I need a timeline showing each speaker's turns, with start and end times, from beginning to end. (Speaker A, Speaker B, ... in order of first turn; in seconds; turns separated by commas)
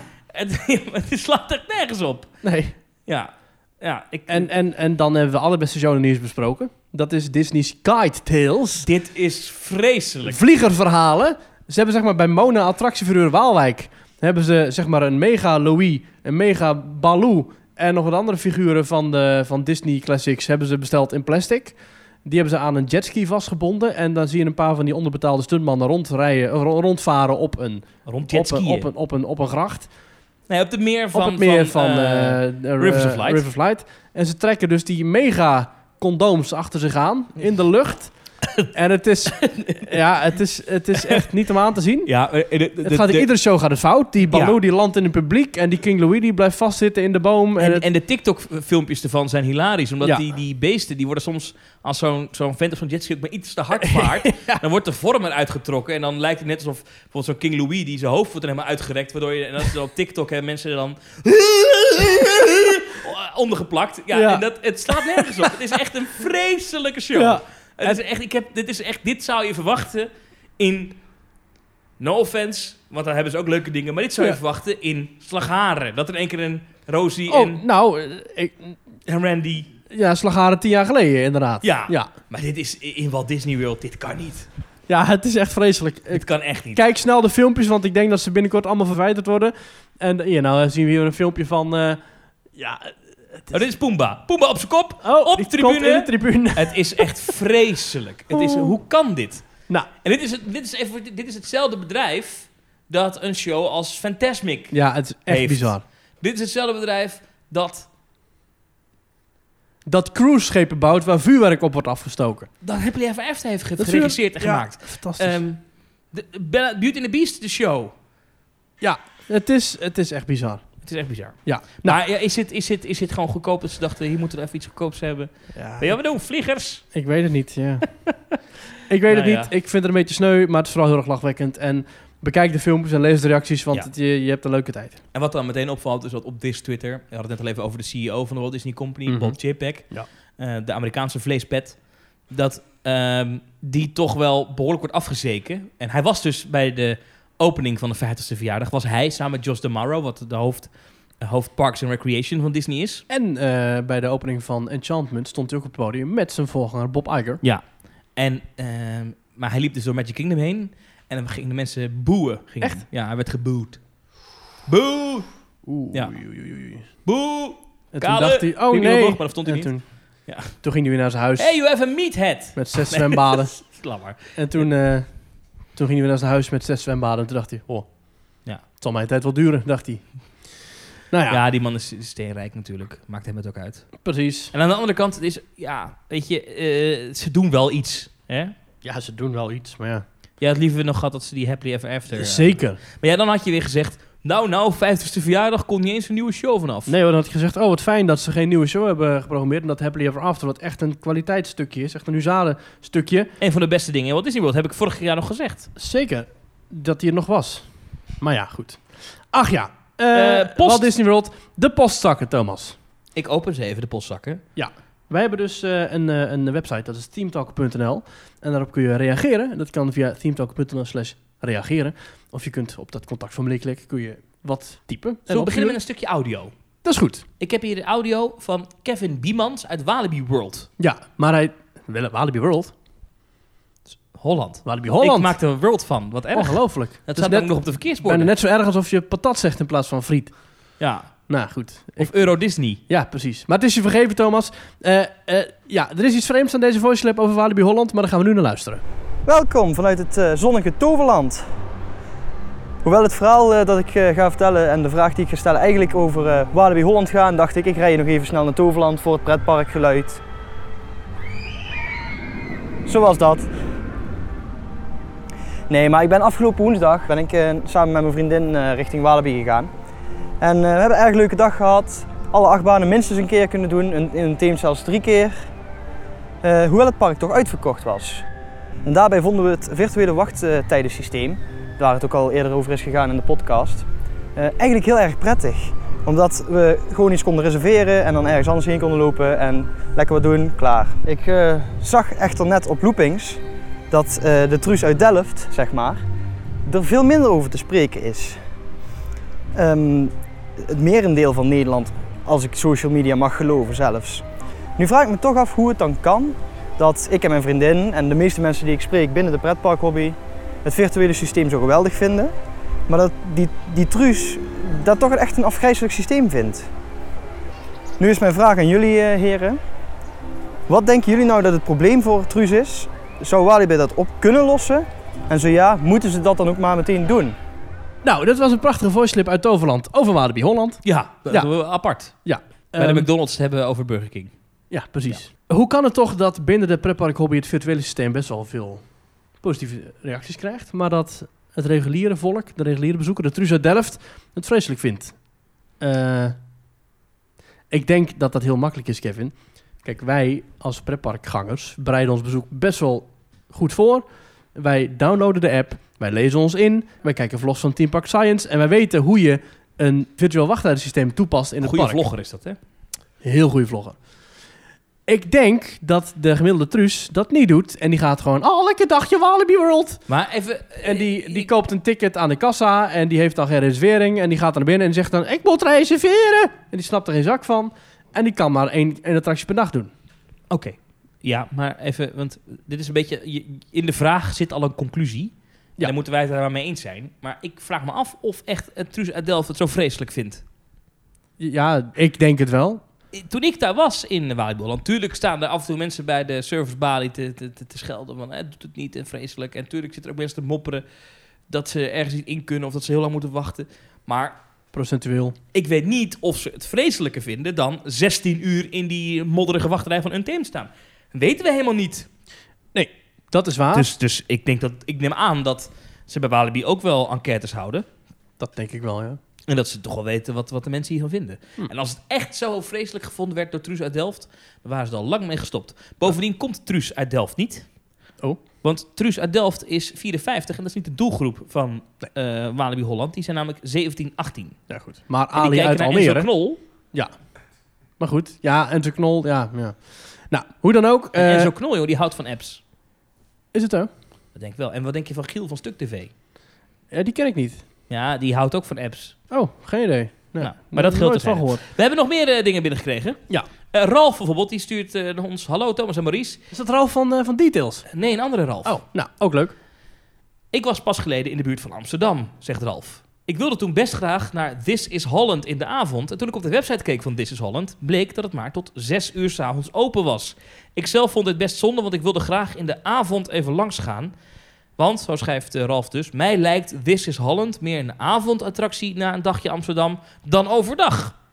Speaker A: 0.3-2.3, Speaker B: 2.4-2.7, Speaker A: 3.1-4.5, Speaker B: 4.3-8.9, Speaker A: 8.8-10.4, Speaker B: 10.2-29.9, Speaker A: 28.1-28.9, Speaker A: 30.5-33.4, Speaker B: 31.1-38.1, Speaker B: 38.7-42.1, Speaker A: 39.4-39.9, Speaker A: 42.0-43.3, Speaker B: 42.8-47.8, Speaker A: 44.3-44.5, Speaker A: 47.6-71.0, Speaker B: 53.8-54.6, Speaker B: 64.1-65.6, Speaker B: 67.1-68.0, Speaker A: 72.0-77.6, Speaker B: 77.3-78.8, Speaker A: 79.0-79.7, Speaker B: 79.9-82.1, Speaker A: 81.6-84.5, Speaker B: 84.9-92.0, Speaker A: 86.1-86.8, Speaker B: 92.5-93.5, Speaker A: 93.5-99.5, Speaker B: 95.0-97.1, Speaker B: 98.3-98.8, Speaker A: 100.0-104.8, Speaker B: 104.7-105.8, Speaker A: 105.3-107.9, Speaker B: 109.8-112.5, Speaker A: 112.6-117.9, Speaker B: 113.8-115.4, Speaker B: 118.8-120.6, Speaker A: 120.8-126.8, Speaker B: 121.4-122.0, Speaker B: 125.5-125.9, Speaker B: 126.9-127.8, Speaker B: 128.9-135.0, Speaker A: 129.1-129.5, Speaker A: 135.1-153.0, Speaker B: 139.1-139.4, Speaker B: 153.1-157.4, Speaker A: 158.1-163.8, Speaker A: 164.7-165.3, Speaker B: 165.7-166.8, Speaker A: 167.0-169.7, Speaker B: 167.9-169.8, Speaker A: 170.2-170.5, Speaker B: 170.6-171.5, Speaker A: 171.4-174.3, Speaker B: 172.6-173.5, Speaker B: 174.3-175.1, Speaker B: 175.7-177.9, Speaker B: 178.8-180.0, Speaker B: 181.1-181.4, Speaker A: 181.3-183.9, Speaker B: 184.0-184.5, Speaker A: 184.5-188.5, Speaker B: 188.8-190.0, Speaker A: 190.4-196.9, Speaker B: 192.1-192.8, Speaker B: 196.9-203.3, Speaker A: 203.4-205.7, Speaker B: 205.8-207.7, Speaker B: 208.2-212.8, Speaker A: 210.1-210.9, Speaker A: 213.2-214.4, Speaker B: 214.6-225.8, Speaker A: 225.3-226.5, Speaker B: 226.8-227.2, Speaker A: 227.4-230.7, Speaker B: 230.8-232.7, Speaker A: 234.1-238.3, Speaker B: 234.6-235.3, Speaker B: 236.3-240.3, Speaker A: 240.8-241.1, Speaker B: 241.3-242.1, Speaker A: 242.0-242.8, Speaker B: 242.9-248.8, Speaker C: 249.2-251.4, Speaker C: 252.8-260.2, Speaker C: 262.9-263.5, Speaker C: 265.7-269.7, Speaker C: 270.4-275.3, Speaker C: 276.4-278.2, Speaker C: 278.8-296.0, Speaker C: 296.6-298.4, Speaker C: 299.5-304.2, Speaker C: 304.8-312.3, Speaker C: 312.9-316.7, Speaker C: 318.0-319.6, Speaker C: 320.7-327.3, Speaker B: 328.0-331.5, Speaker A: 330.8-332.1, Speaker B: 332.2-333.1, Speaker A: 332.8-334.3, Speaker B: 334.7-338.8, Speaker B: 339.4-345.1, Speaker B: 345.8-346.4, Speaker B: 347.7-362.0, Speaker A: 361.6-362.6, Speaker B: 363.2-363.9, Speaker B: 365.1-370.0, Speaker A: 370.1-371.5, Speaker B: 370.8-379.9, Speaker A: 380.5-390.4, Speaker B: 391.4-392.8, Speaker A: 393.1-400.8, Speaker A: 401.5-404.4, Speaker B: 404.7-405.4, Speaker A: 405.5-412.1, Speaker B: 412.7-413.9, Speaker A: 413.7-417.9, Speaker B: 418.4-419.2, Speaker A: 419.5-427.7, Speaker A: 428.6-434.6, Speaker B: 434.7-436.3, Speaker A: 435.3-436.6, Speaker B: 438.0-441.5, Speaker A: 441.1-442.6, Speaker B: 443.5-443.9, Speaker A: 444.3-446.1, Speaker B: 446.9-447.6, Speaker A: 447.9-449.1, Speaker B: 449.3-451.6, Speaker A: 450.4-453.2, Speaker A: 453.7-456.4, Speaker B: 456.5-457.9, Speaker A: 457.9-458.8, Speaker B: 458.6-459.5, Speaker A: 460.5-474.1, Speaker A: 474.8-481.2